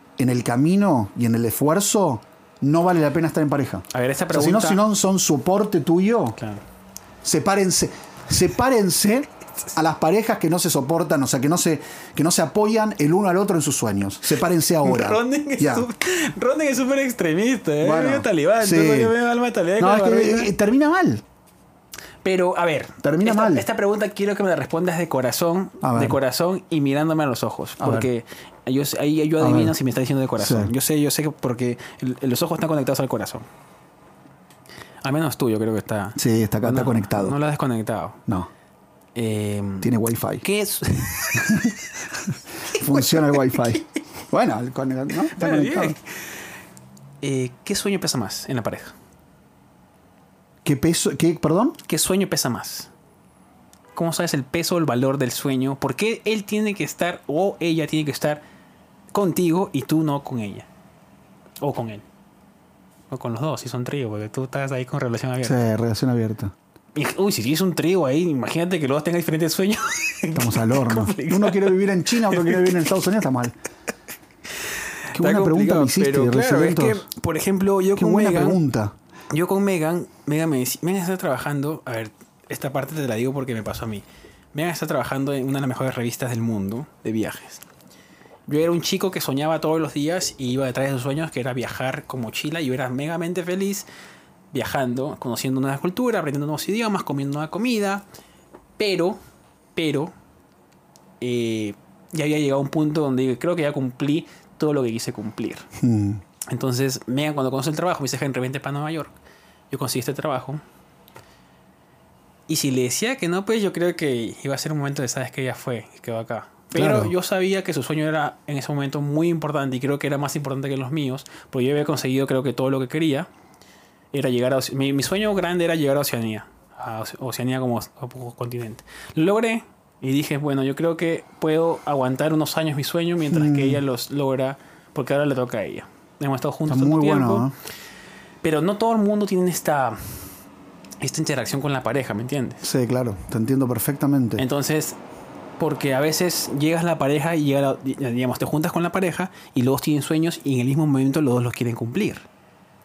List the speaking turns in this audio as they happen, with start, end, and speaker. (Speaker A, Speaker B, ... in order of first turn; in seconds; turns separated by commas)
Speaker A: 0.2-6.4, Speaker B: 3.9-4.8, Speaker B: 6.4-6.6, Speaker A: 7.2-15.9, Speaker B: 14.8-20.5, Speaker A: 17.8-19.1, Speaker A: 19.8-21.2, Speaker B: 22.2-33.5, Speaker A: 23.0-23.6, Speaker A: 25.8-26.2, Speaker A: 27.8-28.1, Speaker A: 29.4-29.7, Speaker A: 30.4-30.7, Speaker B: 35.0-38.2, Speaker A: 36.1-37.4, Speaker B: 39.1-41.8, Speaker A: 39.8-40.4, Speaker A: 41.3-46.0, Speaker B: 42.7-43.8, Speaker B: 45.3-46.0, Speaker B: 47.2-48.9, Speaker A: 50.6-51.8, Speaker B: 51.9-52.9, Speaker B: 53.9-58.4, Speaker B: 59.1-60.7, Speaker B: 61.6-62.0, Speaker B: 63.1-65.6, Speaker A: 65.4-66.5, Speaker B: 66.9-72.8, Speaker A: 70.3-73.5, Speaker B: 75.0-78.6, Speaker A: 75.1-77.0, Speaker A: 78.0-78.9, Speaker B: 79.3-87.6, Speaker B: 88.5-93.8, Speaker B: 94.5-98.0, Speaker B: 98.8-99.2, Speaker B: 99.8-100.1, Speaker B: 101.2-105.7, Speaker A: 105.8-106.2, Speaker B: 106.5-109.1, Speaker B: 109.7-110.6, Speaker B: 112.5-123.3, Speaker A: 116.7-117.1, Speaker B: 124.1-137.5, Speaker A: 133.2-133.8, Speaker A: 136.7-137.5, Speaker B: 138.4-140.3, Speaker B: 141.0-142.7, Speaker A: 142.6-144.4, Speaker B: 144.4-145.0, Speaker B: 145.6-152.2